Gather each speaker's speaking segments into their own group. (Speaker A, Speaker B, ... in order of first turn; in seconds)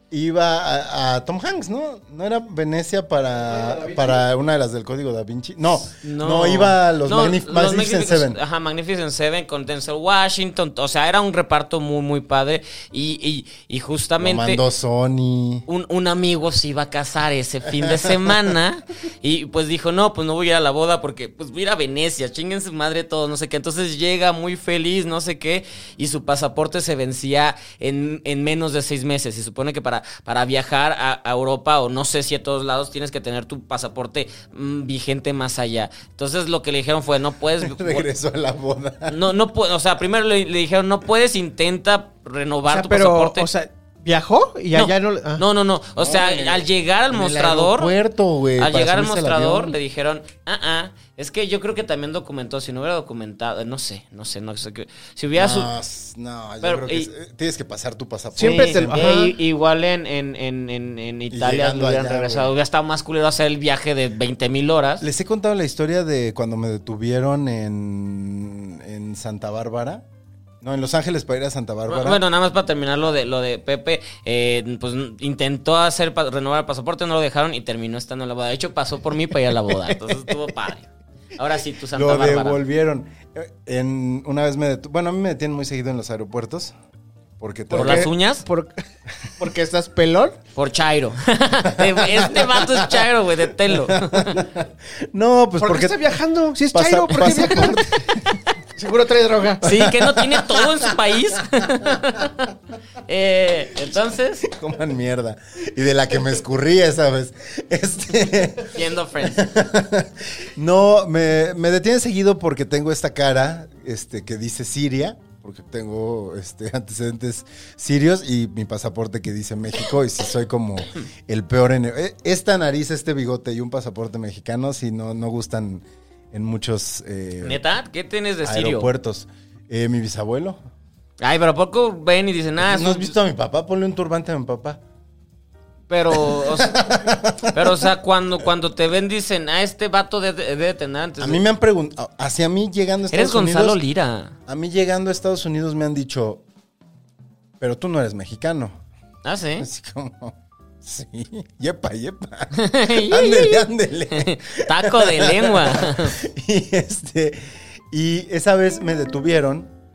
Speaker A: 0.1-8.4, 14.2-15.7, 17.8-18.3, 37.6-39.2, 46.0-49.8, 55.3-59.1, 61.3-62.5, 65.0-70.0, 70.6-72.2, 81.9-86.8, 87.4-88.1, 91.7-96.1, 96.7-98.4, 99.6-102.2, 104.4-127.6, 128.4-130.6, 132.6-134.8, 136.1-137.9, 141.2-143.8, 144.5-146.4, 147.6-148.8, 149.6-159.7
Speaker B: 3.4-4.2, 42.7-45.4, 58.4-59.3, 87.7-88.8, 89.4-90.4, 95.6-97.9, 98.8-99.7
Speaker C: 6.0-14.6, 15.7-38.1, 39.1-43.5, 44.7-47.9, 48.6-55.7, 56.6-57.1, 58.4-65.0, 71.9-82.6, 87.7-88.5, 90.5-94.5, 99.6-102.5, 103.1-104.5, 108.7-109.5, 127.4-128.9, 131.2-133.2, 135.9-136.9, 137.5-141.4, 143.1-144.3, 149.2-149.7, 152.6-156.2